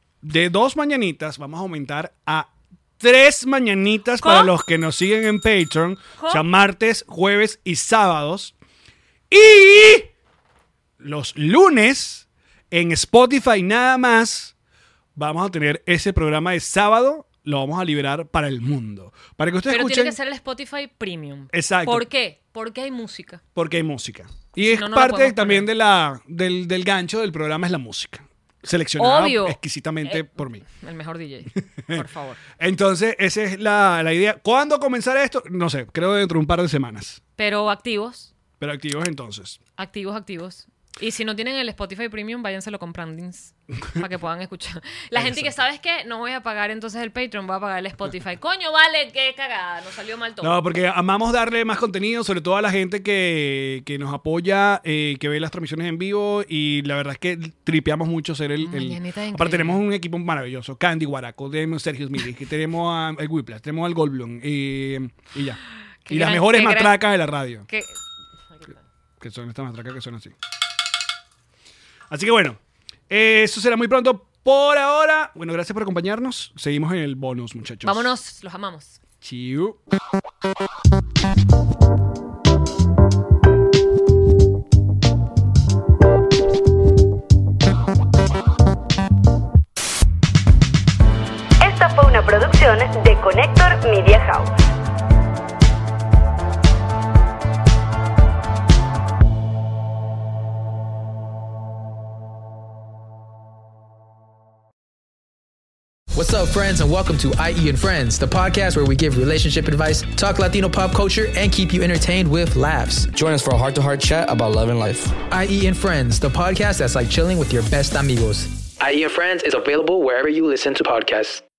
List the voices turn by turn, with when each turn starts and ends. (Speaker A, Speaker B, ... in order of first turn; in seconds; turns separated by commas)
Speaker A: 0.2-8.5, Speaker B: 4.2-4.5, Speaker B: 6.2-6.4, Speaker A: 9.3-10.1, Speaker A: 11.0-14.5, Speaker A: 15.2-20.1, Speaker B: 19.7-23.4, Speaker A: 21.5-22.1, Speaker A: 23.5-30.6, Speaker B: 24.6-25.7, Speaker B: 29.0-32.4, Speaker A: 31.8-32.1, Speaker A: 32.6-37.2, Speaker B: 37.4-38.3, Speaker A: 38.6-39.6, Speaker B: 39.8-50.6, Speaker A: 45.1-45.6, Speaker A: 50.4-67.7, Speaker B: 58.6-59.8, Speaker B: 66.0-67.0, Speaker B: 67.7-67.9, Speaker A: 69.2-70.3, Speaker A: 72.1-78.1, Speaker B: 77.8-79.0, Speaker A: 79.2-79.8, Speaker C: 91.6-94.5, Speaker D: 106.1-113.1, Speaker E: 113.1-115.1, Speaker D: 115.2-118.7, Speaker E: 118.8-121.4